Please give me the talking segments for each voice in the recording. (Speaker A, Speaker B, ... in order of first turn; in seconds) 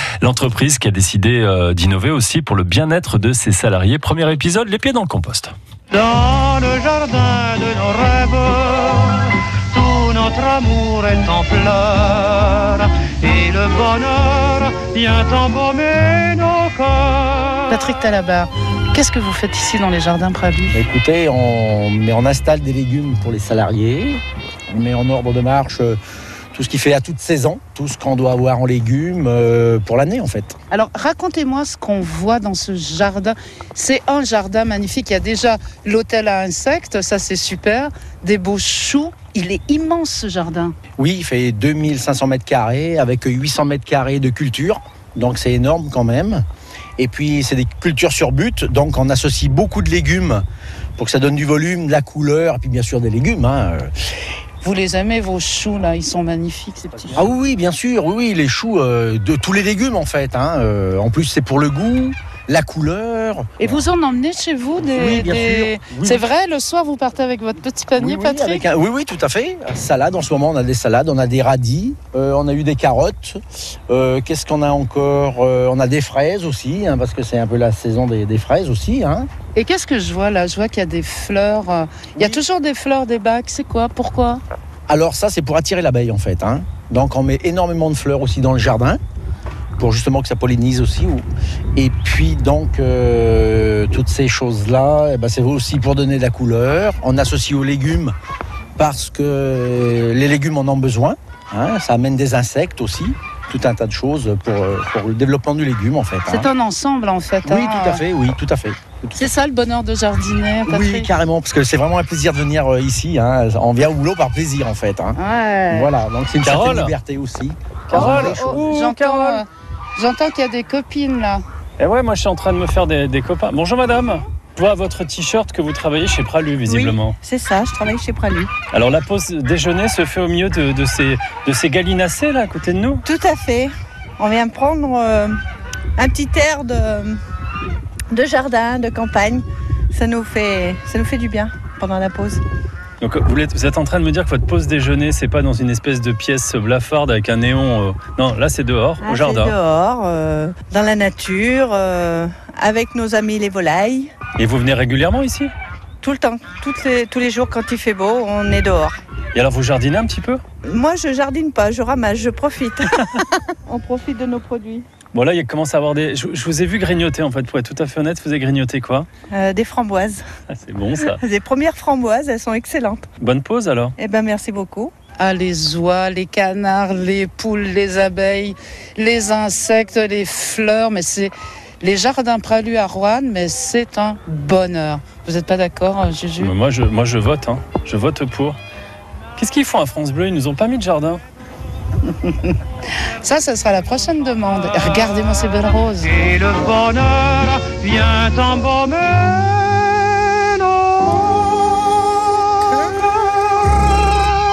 Speaker A: 0.2-5.5, 116.4-116.9, 117.9-119.4, 121.8-127.1, 128.7-133.0, 143.0-149.5, 154.3-155.5, 159.3-160.4, 165.1-169.1, 170.5-171.2, 173.2-173.9, 186.4-188.6, 189.4-191.2
Speaker B: 5.9-17.6, 196.2-201.2
Speaker C: 17.7-20.8, 30.7-40.7, 54.6-57.2, 63.6-68.6, 79.5-84.4, 106.3-108.0, 109.2-111.1, 115.2-115.9, 117.9-121.4, 175.2-186.5, 192.2-192.5, 193.2-196.2
Speaker D: 20.7-26.0, 26.5-30.6, 41.0-46.4, 47.0-50.4, 51.0-53.9, 57.1-63.8, 64.8-66.2, 68.0-73.4, 73.9-79.3, 84.9-89.0, 89.8-98.1, 98.8-106.5, 107.4-109.3, 110.7-118.7
Speaker E: 126.7-128.5, 133.0-135.3, 135.9-137.2, 138.1-142.4, 149.0-154.1, 156.0-159.0, 160.6-164.9, 169.3-170.2, 170.9-173.1, 174.0-174.9